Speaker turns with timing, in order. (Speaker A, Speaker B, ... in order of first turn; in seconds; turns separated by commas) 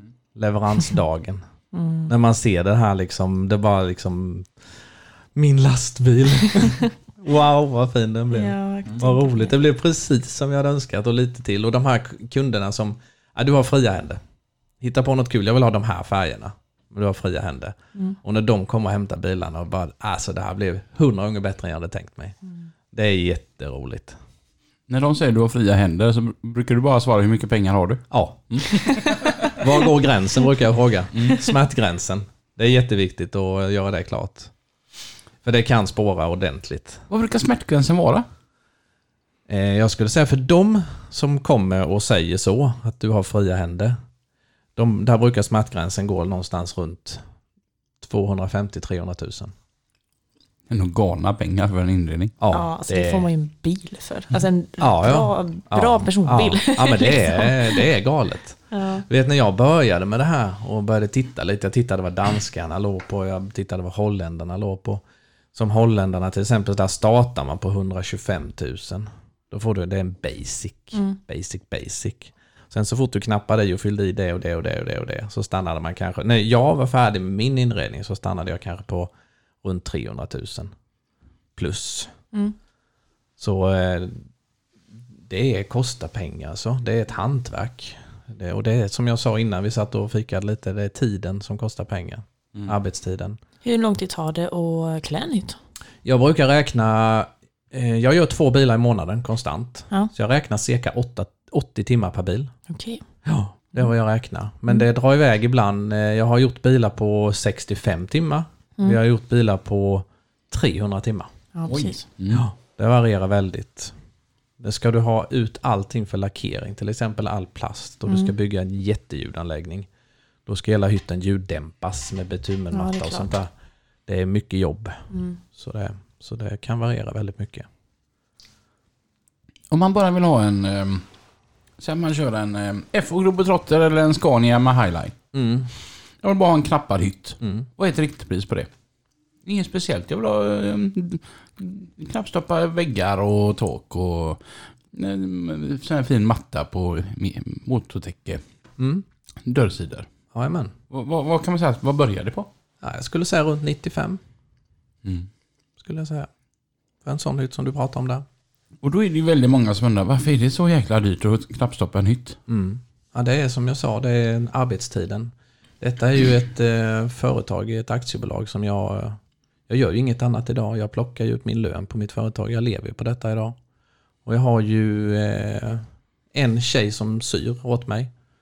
Speaker A: 0.3-1.4, Speaker B: 1.7-2.1, Speaker A: 2.1-4.5, Speaker A: 5.3-14.2, Speaker B: 8.3-9.5, Speaker A: 14.8-22.4, Speaker A: 22.9-24.2, Speaker C: 24.9-29.5, Speaker A: 28.1-28.6, Speaker A: 29.5-34.5, Speaker C: 31.1-31.4, Speaker A: 35.4-37.0, Speaker C: 37.1-38.2, Speaker A: 39.5-44.0, Speaker A: 44.8-47.2, Speaker A: 48.0-49.5, Speaker C: 50.7-52.3, Speaker A: 52.4-53.3, Speaker B: 52.5-57.9, Speaker A: 54.8-65.0, Speaker B: 58.7-59.0, Speaker A: 65.5-79.1, Speaker A: 79.6-80.7, Speaker A: 81.5-82.1, Speaker A: 83.4-84.2, Speaker A: 85.3-93.4, Speaker B: 93.6-95.6, Speaker A: 96.0-102.5, Speaker B: 102.7-103.0, Speaker A: 103.2-111.3, Speaker B: 111.5-112.0, Speaker C: 111.7-112.4, Speaker A: 112.3-113.9, Speaker A: 114.6-119.9, Speaker B: 118.1-118.3, Speaker A: 120.5-123.5, Speaker B: 122.7-123.3, Speaker A: 124.0-127.7, Speaker B: 125.1-125.4, Speaker C: 129.7-131.1, Speaker C: 131.8-135.2, Speaker A: 135.3-135.7, Speaker C: 136.2-138.7, Speaker A: 137.4-137.7, Speaker C: 139.4-144.4, Speaker C: 144.9-148.4, Speaker A: 148.8-149.0, Speaker C: 149.4-150.1, Speaker A: 150.3-150.7, Speaker C: 150.9-152.5, Speaker A: 152.8-154.2, Speaker A: 155.8-156.3, Speaker A: 157.0-158.2, Speaker C: 158.8-162.4, Speaker A: 162.5-173.6, Speaker A: 174.2-178.1